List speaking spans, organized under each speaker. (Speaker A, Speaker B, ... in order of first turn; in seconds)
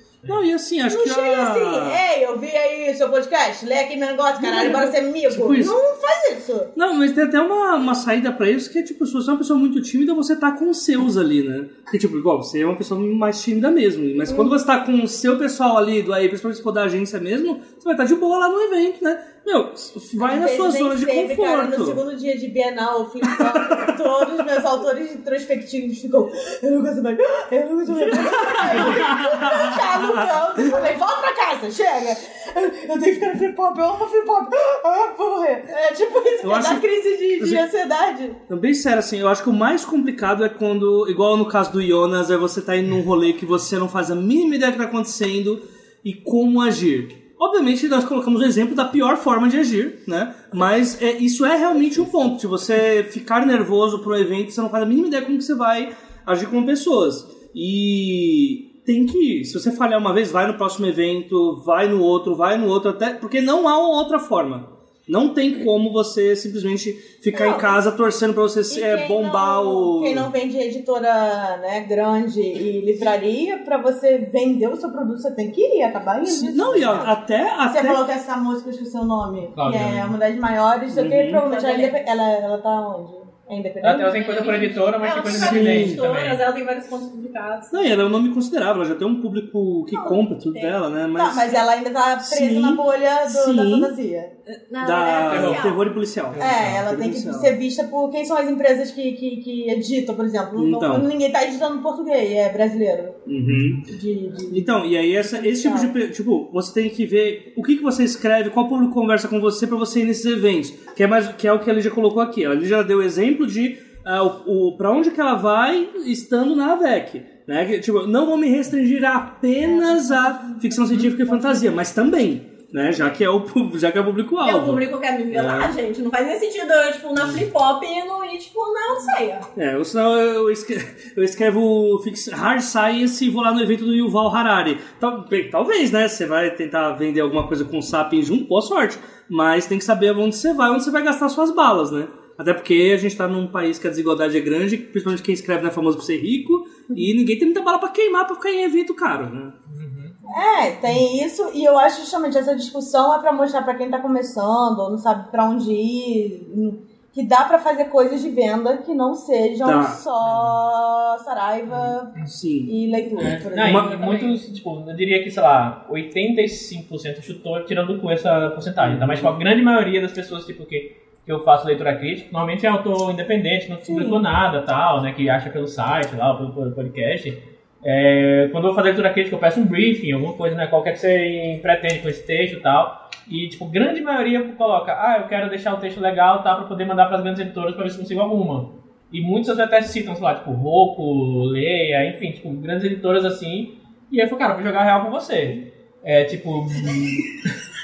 Speaker A: 0.3-2.0, 4.4-5.7, 6.8-22.0, 23.3-23.9, 28.0-30.9, 36.4-36.8, 37.4-37.6, 38.5-70.3, 76.3-78.0, 80.9-81.4, 85.3-86.0, 87.7-91.6, 92.2-93.9, 94.8-97.5, 100.5-101.1, 103.3-103.9, 104.5-125.8, 129.6-149.5, 159.6-160.0, 162.2-162.7, 163.3-164.1, 168.8-169.3
Speaker B: 0.9-6.7, 14.3-14.6, 20.2-38.4, 68.7-84.2, 91.2-94.3, 96.4-103.2, 103.9-106.0, 150.3-164.0, 173.9-174.2
Speaker C: 67.3-67.7, 81.4-82.0, 84.1-87.8, 89.9-90.8, 94.7-95.8, 124.4-129.5
Speaker D: 79.6-80.2, 83.8-86.5, 95.2-96.8, 149.7-150.2, 160.2-160.6, 163.5-197.5